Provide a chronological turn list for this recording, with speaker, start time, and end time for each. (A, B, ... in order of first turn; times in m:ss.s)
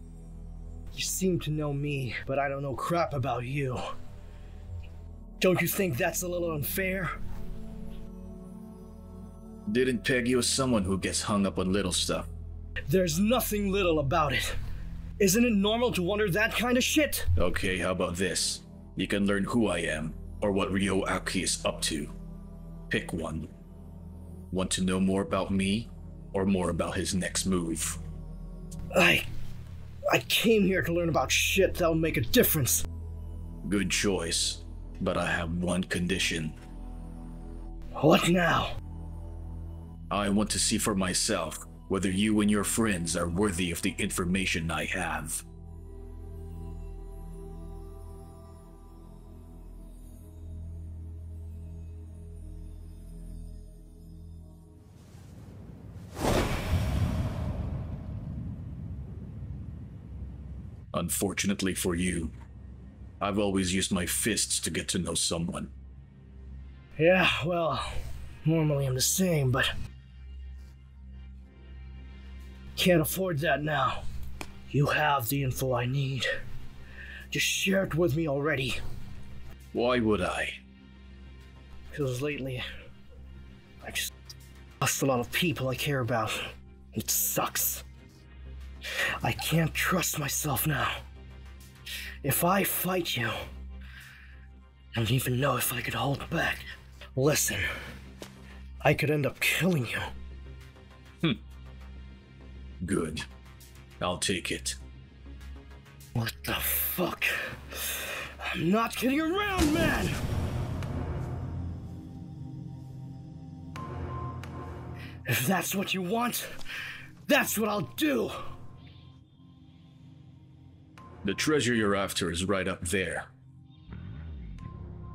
0:00.9-0:03.8 A
0:05.4-0:07.1 A
0:09.7-0:12.3 B
0:12.9-0:14.6 A
0:15.2-0:17.3 A
0:17.4-0:22.1 B
0:22.9-0:23.5 B
0:24.5-0:28.0 B
0:28.9-0:29.3 A
0:30.1-0:32.8 A
0:33.6-0:36.6 B
0:38.0-0:38.7 A
0:40.1-0:45.4 B
1:00.9-1:02.3 B
1:03.2-1:05.7 B
1:07.0-1:09.7 A
1:12.8-1:14.0 A
1:14.7-1:16.3 A
1:17.3-1:18.8 A
1:19.7-1:20.6 B
1:21.9-1:22.6 A
1:23.8-1:24.1 A
1:24.8-1:27.8 A
1:29.2-1:31.0 A
1:32.2-1:33.3 A
1:34.9-1:37.7 A
1:38.8-1:40.1 A
1:42.8-1:43.2 B
1:44.0-1:44.8 B
1:46.1-1:50.1 A
1:55.2-1:56.6 A
1:57.3-1:58.4 A
2:01.2-2:03.3 B